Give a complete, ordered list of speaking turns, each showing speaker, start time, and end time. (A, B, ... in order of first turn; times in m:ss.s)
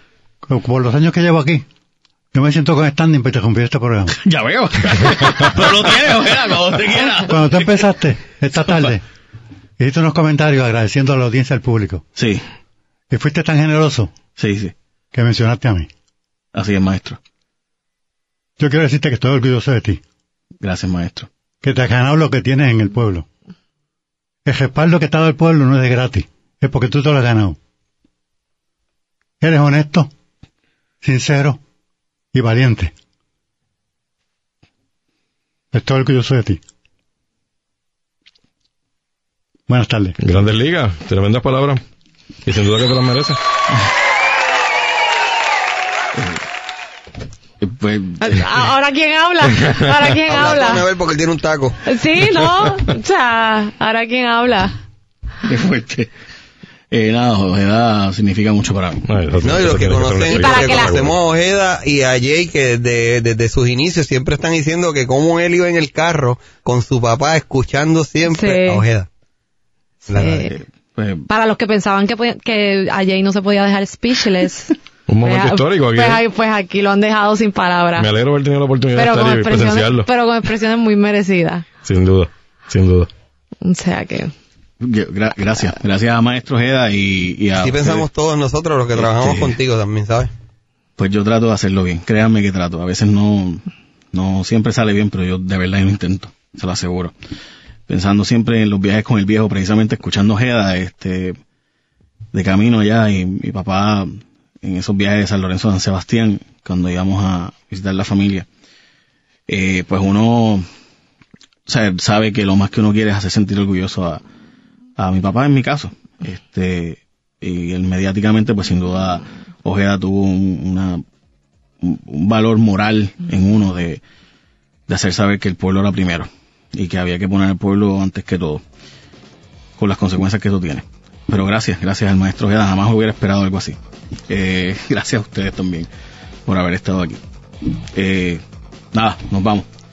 0:00.4-0:01.6 A
0:02.3-0:04.2 A
0:04.1-0:07.6 B
0:07.2-0:09.0 A
0:09.8-0:12.0 A
0:12.2-0:12.4 B
0:13.1-0:14.1 A
0:14.4-0:14.7 B
0:15.1-0:15.9 A
0:16.5-0:17.2 B
0:18.6-0:20.0 A
0:20.6-0:21.3 B
0:21.6-0:23.3 A
0:24.4-0:27.6 A
0:29.4-0:30.1 A
0:31.0-0:31.6 A
0:32.3-0:32.9 A
0:35.7-0:36.6 A
0:39.7-0:40.2 A
0:40.2-0:41.8 C
0:42.4-0:43.4 C
0:47.6-0:48.5 B
0:48.2-0:50.8 D
0:50.2-0:51.8 E
0:51.8-0:54.8 D
0:55.4-0:56.1 B
0:56.9-0:59.0 B
0:59.1-1:01.1 C
0:59.4-1:09.1 E
1:00.3-1:01.0 D
1:08.2-1:08.8 D
1:10.0-1:10.5 D
1:10.2-1:11.3 B
1:11.3-1:18.1 D
1:15.1-1:16.2 C
1:18.0-1:20.1 C
1:18.9-1:21.7 D
1:21.8-1:23.1 C
1:23.6-1:24.3 D
1:24.8-1:28.1 B
1:27.6-1:30.3 E
1:29.0-1:29.6 B
1:31.0-1:37.1 B
1:37.9-1:41.4 B
1:42.3-1:44.1 B
1:44.6-1:48.5 B
1:49.5-1:50.6 B
1:51.7-1:54.2 B
1:55.0-2:01.0 B
2:01.8-2:04.0 B
2:04.9-2:08.6 B
2:09.8-2:13.8 B
2:14.3-2:15.9 B
2:16.4-2:17.2 B
2:17.9-2:18.4 B
2:18.9-2:19.7 B